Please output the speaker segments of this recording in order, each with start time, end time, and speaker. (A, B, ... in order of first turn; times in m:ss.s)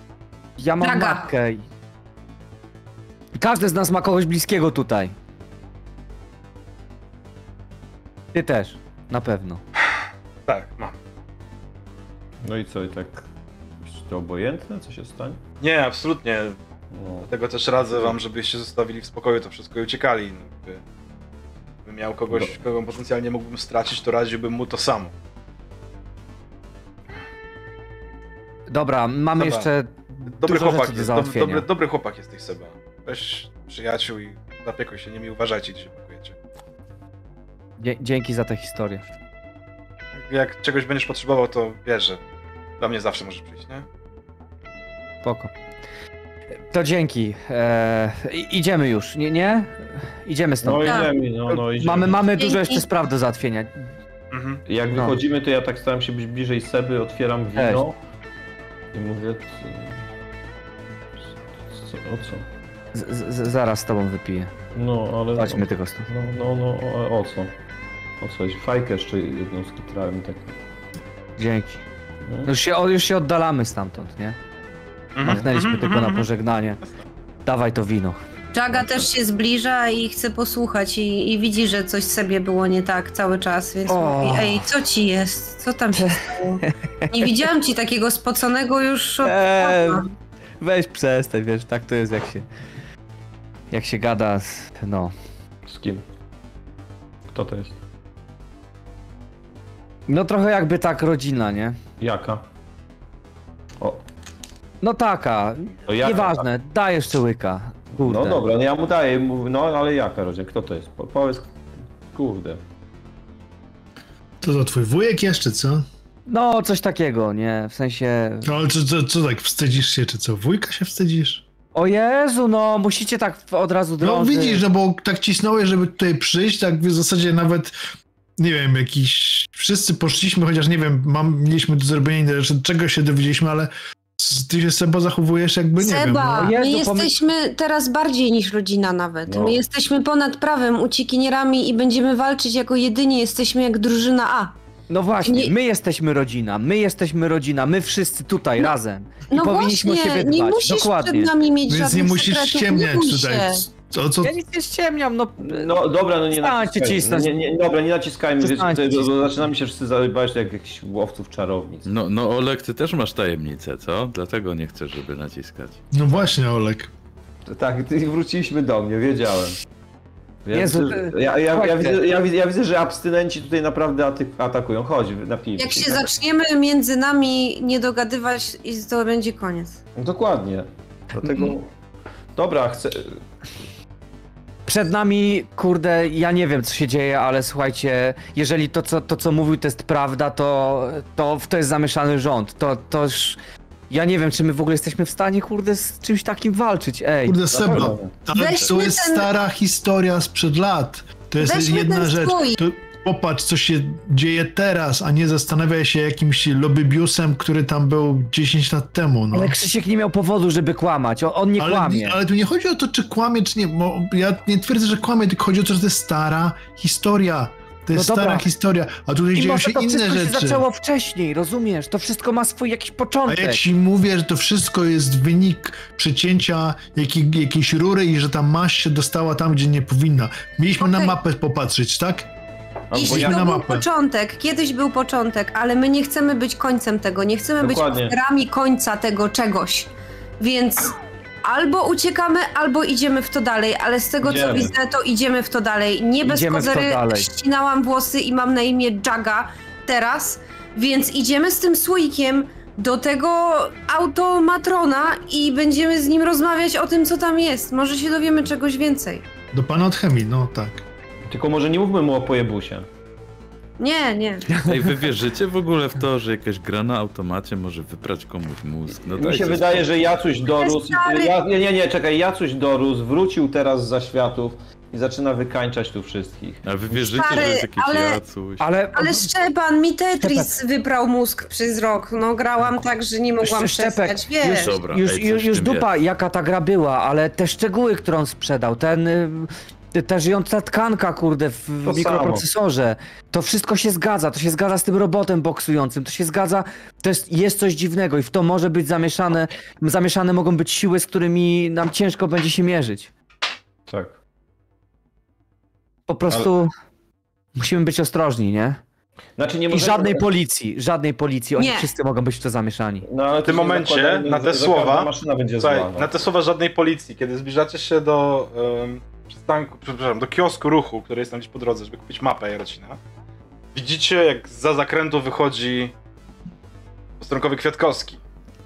0:00.6-0:01.6 A
0:00.8-0:01.3 B
0:03.4-0:05.1 A
0:08.3-0:09.6 A
0:10.5-0:11.0 C
0:12.4-0:13.3 D
0:13.8-0:15.4 D
0:15.6-0:16.6 C
0:16.9-0:17.3 D
0:17.3-0:20.8 C
0:21.9-0:25.1 C
0:28.7-0:31.7 A
0:29.4-0:29.7 C
0:30.3-0:36.4 C
0:37.8-0:39.0 A
0:40.2-0:42.2 C
0:42.8-0:43.9 C
0:45.2-0:45.5 A
0:46.7-0:53.9 A
0:50.6-0:52.2 D
0:50.8-0:51.1 B
0:52.4-0:52.8 B
0:54.3-0:54.6 C
0:54.7-0:58.0 D
0:57.6-0:57.8 A
0:58.9-1:00.0 D
1:01.6-1:02.5 D
1:03.0-1:04.5 A
1:04.8-1:07.6 D
1:05.4-1:06.1 A
1:08.2-1:10.6 D
1:11.4-1:11.8 A
1:12.2-1:12.5 D
1:12.4-1:14.4 A
1:15.2-1:16.3 C
1:15.2-1:16.8 A
1:17.5-1:18.2 A
1:18.5-1:30.1 B
1:18.7-1:19.1 D
1:23.9-1:24.6 A
1:26.0-1:27.4 A
1:29.2-1:30.1 A
1:30.6-1:32.5 A
1:33.7-1:35.1 A
1:35.7-1:36.0 D
1:37.3-1:37.8 D
1:40.1-1:41.8 A
1:42.0-1:42.4 D
1:44.8-1:48.4 A
1:45.9-1:46.5 D
1:48.0-1:51.6 D
1:52.1-1:52.6 D
1:54.4-1:55.9 E
1:56.3-1:58.5 A
1:58.4-2:01.4 E
2:01.8-2:04.6 A
2:04.0-2:07.7 E
2:08.4-2:16.5 E
2:15.8-2:24.6 B
2:16.4-2:17.1 A
2:19.3-2:19.6 D
2:24.9-2:31.3 A
2:25.2-2:25.5 B
2:29.3-2:33.6 B
2:31.7-2:34.3 E
2:34.2-2:35.8 A
2:35.4-2:41.9 D
2:36.3-2:37.3 A
2:38.4-2:39.2 A
2:41.9-2:45.8 F
2:45.9-2:46.9 E
2:47.5-2:49.6 D
2:50.4-2:56.1 D
2:50.5-2:52.0 A
2:55.6-2:59.8 B
3:00.0-3:01.7 D
3:01.2-3:01.6 A
3:02.4-3:03.2 D
3:04.7-3:13.4 A
3:13.9-3:17.4 A
3:17.3-3:29.6 E
3:17.5-3:18.2 D
3:18.3-3:19.3 B
3:21.4-3:22.6 B
3:29.3-3:32.2 A
3:31.6-3:40.6 E
3:37.9-3:38.5 A
3:39.4-3:43.6 A
3:43.3-3:52.3 E
3:50.8-3:51.2 B
3:52.9-3:53.5 D
3:52.9-4:19.2 B
3:53.0-3:53.9 E
3:57.6-3:58.2 D
4:04.2-4:04.7 D
4:06.2-4:07.3 A
4:19.5-4:20.8 E
4:21.3-4:22.9 D
4:23.8-4:24.5 B
4:24.5-4:24.8 A
4:24.6-4:29.9 F
4:29.1-4:37.0 D
4:30.5-4:31.4 B
4:36.6-4:38.7 F
4:37.1-4:38.2 B
4:38.6-4:39.3 A
4:38.9-4:44.7 B
4:40.2-4:40.5 A
4:43.4-5:03.1 A
4:44.4-4:45.9 F
4:51.8-4:52.5 D
5:03.9-5:04.2 D
5:06.1-5:06.7 A
5:07.6-5:08.8 A
5:09.4-5:10.2 D
5:09.7-5:13.1 A
5:11.6-5:11.9 B
5:13.1-5:16.1 D
5:13.4-5:23.0 C
5:23.8-5:25.9 C
5:27.2-5:28.2 C